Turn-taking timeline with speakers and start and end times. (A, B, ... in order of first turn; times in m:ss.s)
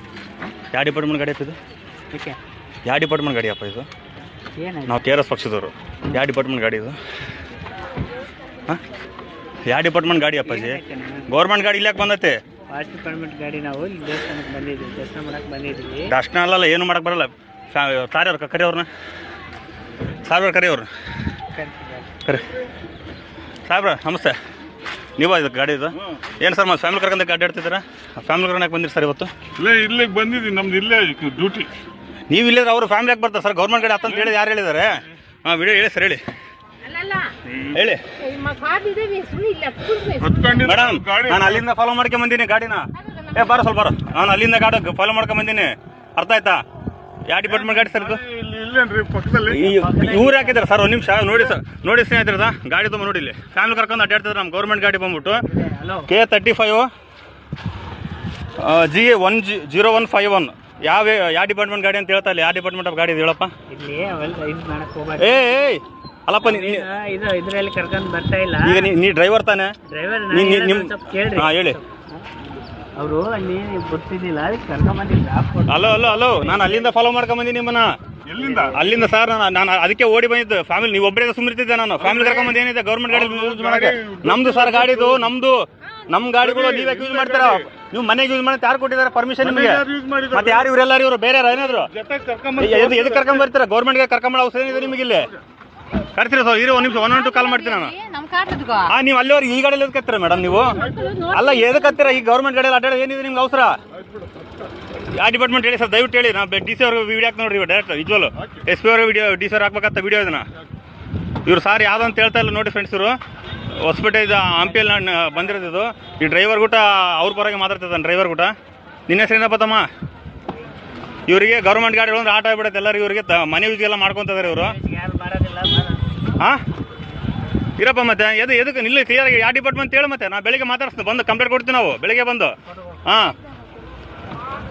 0:00.7-0:01.6 A
0:02.1-0:02.4 B
0:02.8-0:03.9 A
0:04.6-0:05.0 B
0:04.8-0:07.0 A
0:09.7-0:12.4 A
0:10.4-0:11.3 B
0:12.7-0:16.1 B
0:16.1-0:18.9 A
0:20.2-0:20.9 A
0:21.6-0:22.0 B
0:23.7-0:24.4 A
0:25.2-0:29.3 A
0:29.6-0:31.7 C
0:32.3-0:36.2 A
0:36.8-0:37.3 D
0:37.6-0:38.1 A
0:38.2-0:41.3 D
0:40.6-0:46.6 A
0:43.0-0:43.4 D
0:47.3-0:48.2 A
0:48.2-0:49.8 C
0:49.4-0:55.4 A
0:50.0-0:50.6 B
0:55.5-0:56.0 B
0:56.1-0:56.9 A
0:58.6-1:03.5 A
1:03.7-1:05.5 B
1:05.2-1:06.8 A
1:06.4-1:08.8 B
1:08.6-1:09.7 A
1:09.9-1:11.8 B
1:10.3-1:11.8 A
1:13.0-1:16.9 B
1:15.7-1:17.9 A
1:18.3-1:18.8 C
1:18.4-1:18.8 B
1:18.6-1:31.9 A
1:23.7-1:24.7 C
1:26.8-1:27.5 C
1:29.8-1:30.2 C
1:32.0-1:33.0 C
1:32.6-1:35.3 A
1:36.1-1:37.9 A
1:37.0-1:38.9 D
1:38.9-1:43.8 A
1:40.5-1:42.2 D
1:45.1-1:50.4 A
1:51.4-1:53.2 A
1:53.7-1:58.5 A
1:59.1-1:59.8 A
2:01.3-2:04.8 A
2:04.4-2:06.1 B
2:07.8-2:13.3 A